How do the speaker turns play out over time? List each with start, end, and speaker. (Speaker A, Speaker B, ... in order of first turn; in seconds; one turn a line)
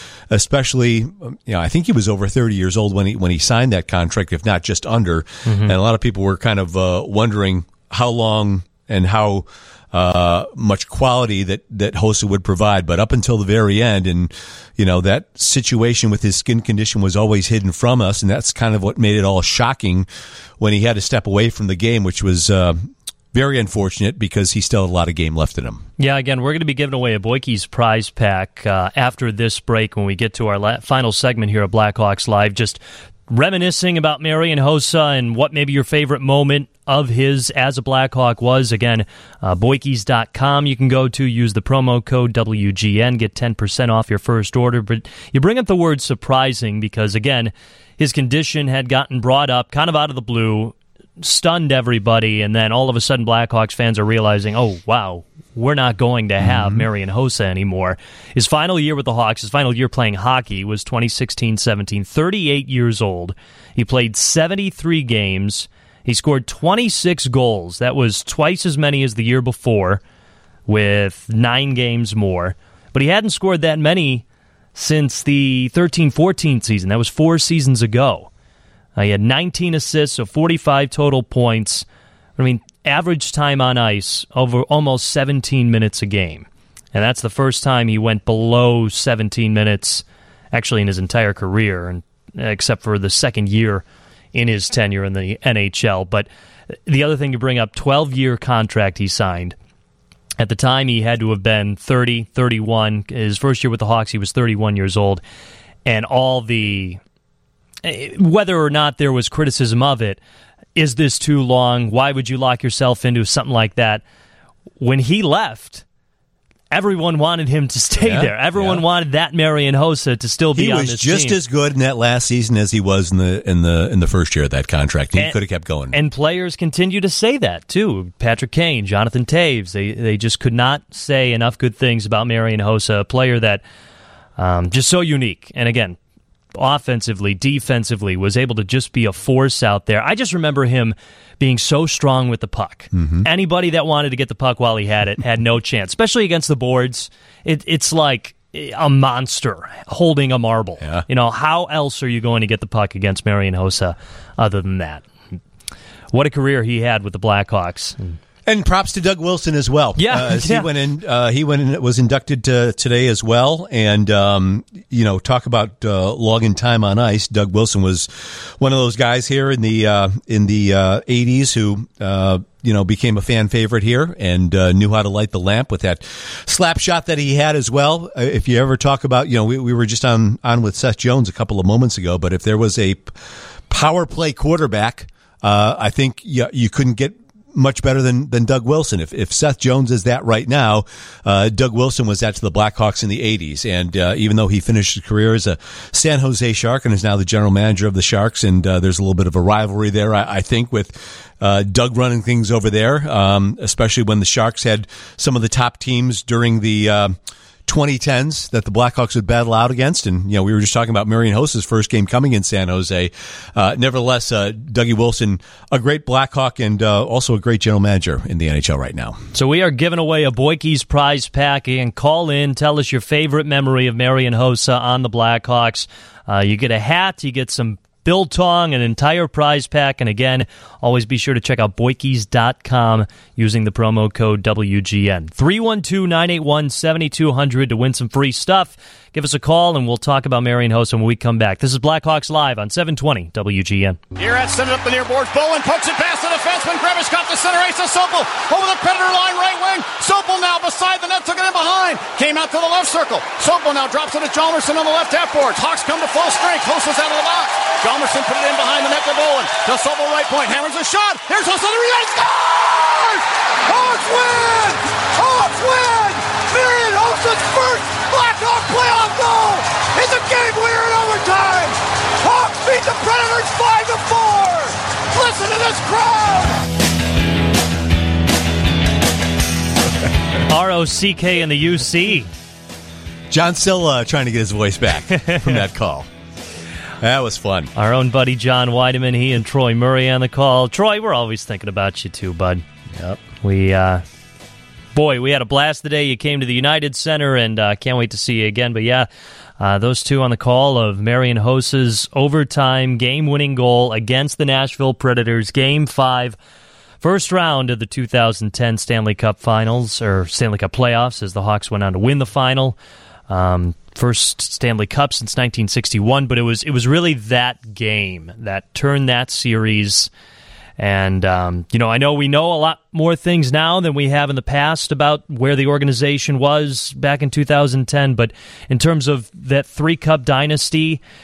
Speaker A: 0.3-20.1
Speaker B: 5.5-5.8
Speaker A: 20.6-25.8
Speaker B: 26.0-70.0
Speaker A: 56.4-56.9
Speaker B: 70.7-74.2
Speaker B: 74.8-78.3
Speaker B: 79.0-81.8
Speaker B: 82.4-96.3
Speaker B: 96.9-99.5
Speaker B: 100.4-105.2
Speaker B: 105.8-107.0
Speaker B: 107.8-110.2
Speaker B: 110.8-114.0
Speaker B: 114.8-115.8
Speaker B: 116.7-121.4
Speaker A: 118.0-118.8
Speaker A: 120.5-126.0
Speaker B: 125.9-133.6
Speaker B: 134.4-136.0
Speaker B: 136.5-155.1
Speaker A: 142.9-143.3
Speaker B: 156.1-158.2
Speaker A: 158.5-183.2
Speaker B: 160.0-160.7
Speaker A: 183.7-219.2
Speaker B: 219.3-244.0
Speaker C: 244.2-276.6
Speaker B: 280.5-282.3
Speaker A: 283.3-286.1
Speaker A: 287.0-287.7
Speaker B: 287.8-292.6
Speaker A: 292.9-293.2
Speaker B: 293.4-294.0
Speaker B: 294.9-299.1
Speaker B: 299.6-306.4
Speaker B: 307.0-312.8
Speaker B: 313.3-320.1
Speaker B: 320.8-331.0